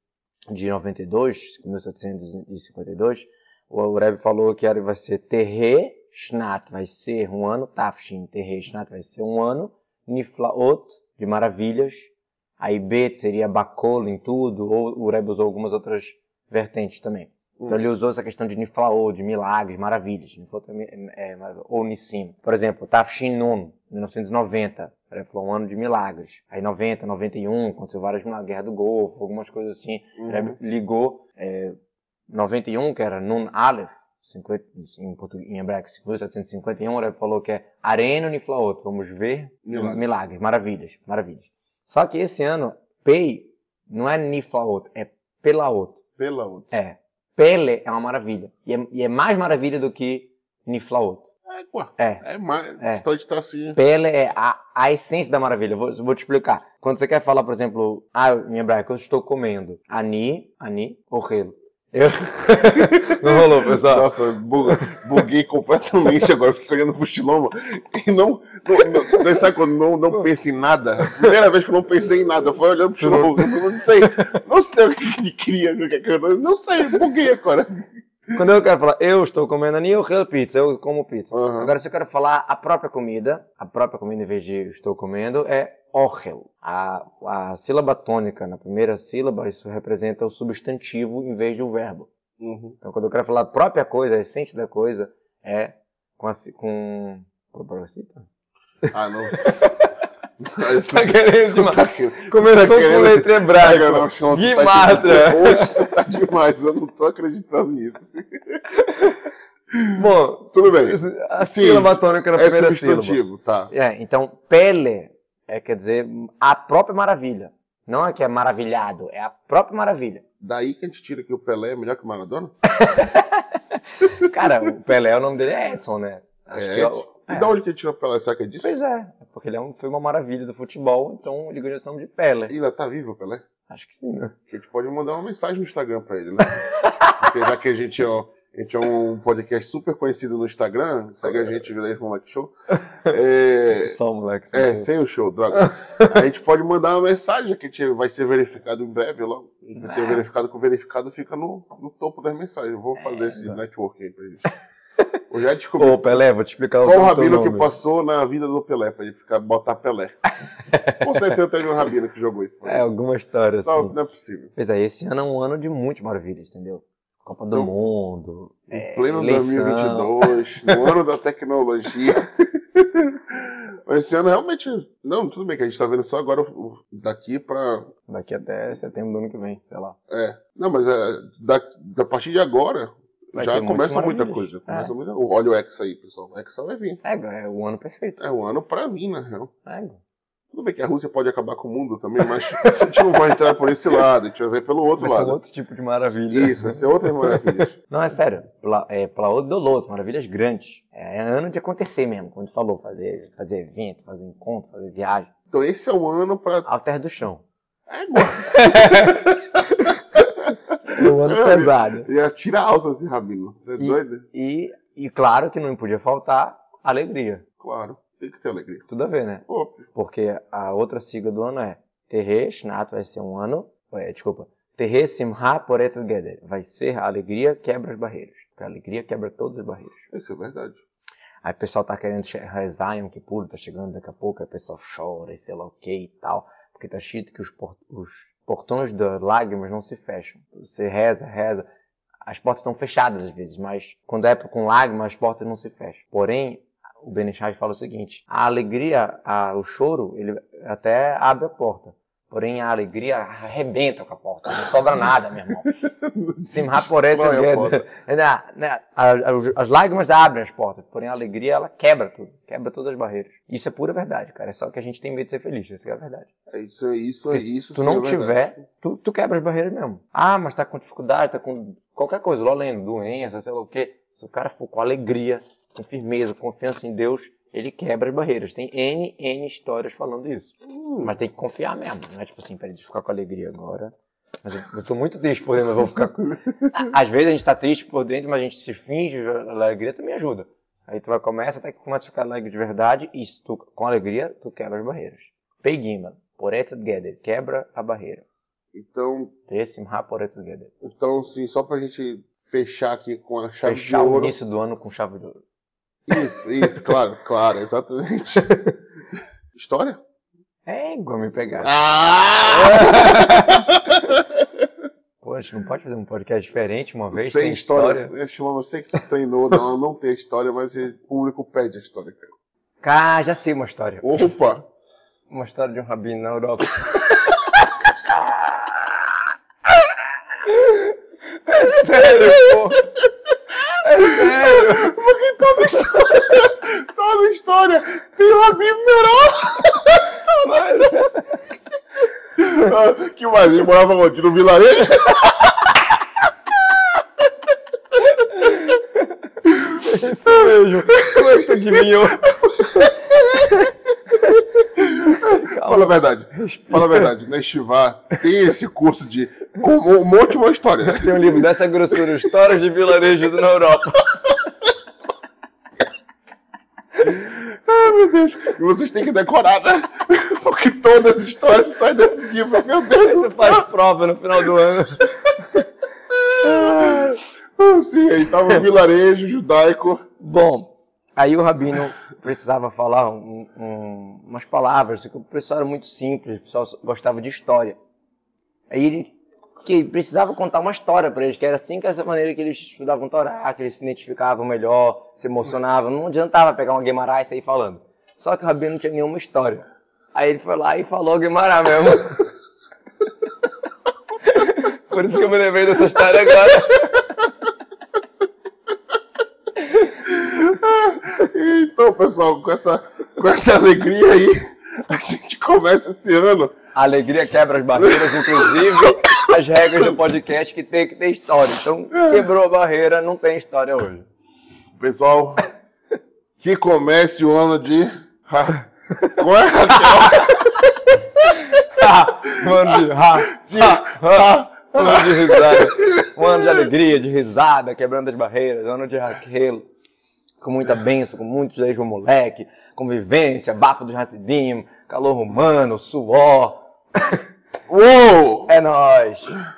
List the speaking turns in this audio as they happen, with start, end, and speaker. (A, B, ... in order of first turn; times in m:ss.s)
0:00.5-0:31.8 A
0:30.2-0:30.6 B
0:32.3-0:46.0 A
0:39.6-0:40.0 B
0:46.2-0:46.7 B
0:46.7-0:51.3 A
0:51.5-0:53.8 B
0:52.0-0:52.2 A
0:52.8-0:53.0 A
0:53.7-1:04.1 A
1:02.8-1:17.8 B
1:04.7-1:05.0 A
1:11.0-1:11.3 A
1:13.0-1:14.3 A
1:18.3-1:32.1 A
1:21.3-1:21.7 B
1:32.4-1:32.8 B
1:32.8-1:38.3 A
1:38.8-1:39.9 A
1:38.9-1:39.4 B
1:40.4-1:48.6 B
1:40.7-1:45.9 A
1:49.7-1:50.0 B
1:49.9-1:53.2 A
1:50.5-1:53.7 B
1:53.7-2:00.2 A
2:00.4-2:02.5 B
2:02.6-2:07.5 A
2:06.5-2:08.7 B
2:08.6-2:12.5 A
2:12.5-2:13.4 B
2:13.7-2:14.4 A
2:14.5-2:22.5 B
2:16.5-2:17.3 A
2:23.0-2:24.0 B
2:23.8-2:24.9 A
2:24.5-2:34.5 B
2:25.5-2:26.2 A
2:29.8-2:30.2 A
2:33.0-2:33.6 A
2:35.3-2:36.2 B
2:35.8-2:37.7 A
2:36.8-2:40.2 B
2:40.7-2:41.3 A
2:41.0-2:42.8 B
2:42.6-2:43.9 A
2:43.6-2:44.5 B
2:44.6-2:50.8 A
2:48.7-2:57.9 B
2:58.1-3:00.0 A
3:00.1-3:07.0 B
3:03.3-3:04.9 A
3:07.0-3:08.2 A
3:08.2-3:09.5 B
3:09.6-3:10.0 A
3:10.5-3:15.4 B
3:12.5-3:13.6 A
3:15.0-3:25.3 A
3:16.3-3:17.8 B
3:25.5-3:26.7 B
3:26.6-3:27.4 A
3:27.9-3:34.2 B
3:28.2-3:29.9 A
3:30.9-3:32.1 A
3:33.8-3:37.4 A
3:37.6-3:38.8 B
3:38.9-3:50.1 A
3:39.5-3:39.8 B
3:50.1-3:50.8 B
3:51.4-4:01.6 A
4:02.3-4:15.7 A
4:15.6-4:17.9 B
4:16.4-4:26.3 A
4:26.5-4:28.6 B
4:27.3-4:58.2 A
4:40.7-4:41.1 B
4:58.7-4:59.3 B
4:59.5-5:00.7 A
5:00.8-5:04.4 B
5:03.6-5:05.4 A
5:06.1-5:08.7 B
5:09.5-5:10.0 B
5:10.7-5:11.7 A
5:11.6-5:14.5 B
5:12.5-5:13.7 A
5:15.2-5:18.1 A
5:17.1-5:22.3 B
5:22.8-5:24.2 A
5:24.0-5:24.6 B
5:25.3-5:28.1 A
5:30.5-5:32.8 A
5:32.0-5:33.0 B
5:33.8-5:34.9 A
5:34.0-5:41.1 B
5:40.4-5:41.4 A
5:42.4-5:45.7 B
5:45.0-5:45.3 A
5:48.0-5:54.5 A
5:49.5-5:53.5 B
5:54.7-6:01.4 B
5:55.2-5:57.1 A
6:00.8-6:04.3 A
6:02.0-6:02.3 B
6:07.0-6:13.7 B
6:12.9-6:15.6 A
6:16.1-6:20.0 B
6:16.4-6:17.2 A
6:20.2-6:27.8 A
6:28.7-6:42.3 A
6:44.2-6:47.2 A
6:49.9-6:56.5 B
6:56.7-7:04.1 A
6:57.8-7:00.0 B
7:01.9-7:02.3 B
7:04.8-7:05.4 B
7:06.4-7:10.7 B
7:09.8-7:10.6 A
7:11.2-7:16.7 B
7:11.5-7:19.6 A
7:20.4-7:27.2 A
7:27.7-7:28.5 B
7:28.5-7:29.4 A